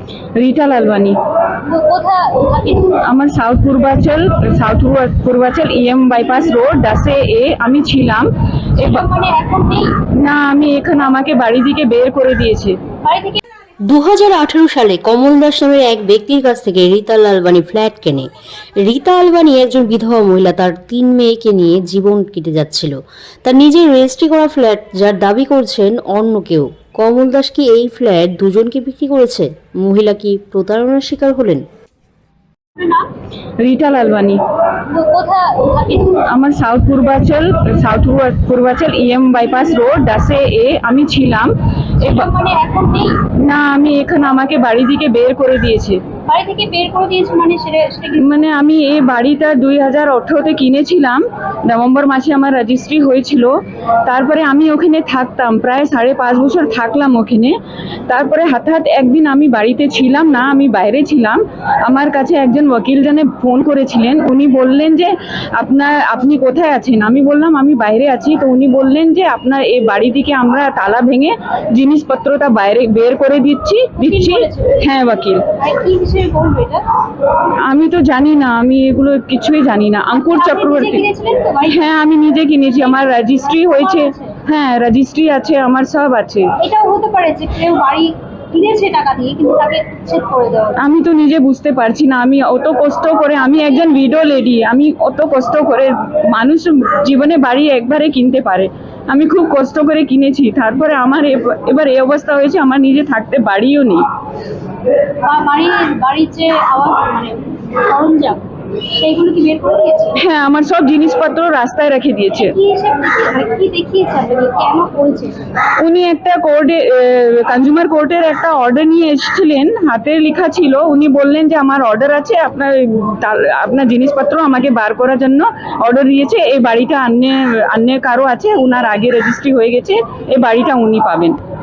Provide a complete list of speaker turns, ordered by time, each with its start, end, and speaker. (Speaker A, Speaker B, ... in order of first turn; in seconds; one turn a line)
Speaker A: 0.3-1.2
Speaker B: 1.6-3.0
Speaker A: 3.0-9.0
Speaker B: 8.8-9.9
Speaker A: 10.1-12.8
Speaker B: 13.0-13.4
Speaker C: 13.9-31.7
Speaker B: 32.8-33.0
Speaker A: 33.6-34.4
Speaker B: 34.9-36.3
Speaker A: 36.2-42.3
Speaker B: 42.0-43.2
Speaker A: 43.3-46.0
Speaker B: 46.2-48.3
Speaker A: 48.2-57.6
Speaker A: 58.1-75.5
Speaker B: 74.0-74.9
Speaker B: 75.5-76.8
Speaker A: 77.5-81.0
Speaker B: 80.1-81.9
Speaker A: 81.7-86.5
Speaker B: 82.8-84.4
Speaker B: 86.6-90.9
Speaker A: 90.8-104.0
Speaker B: 105.2-110.2
Speaker A: 110.2-112.5
Speaker B: 112.3-115.4
Speaker A: 115.8-131.4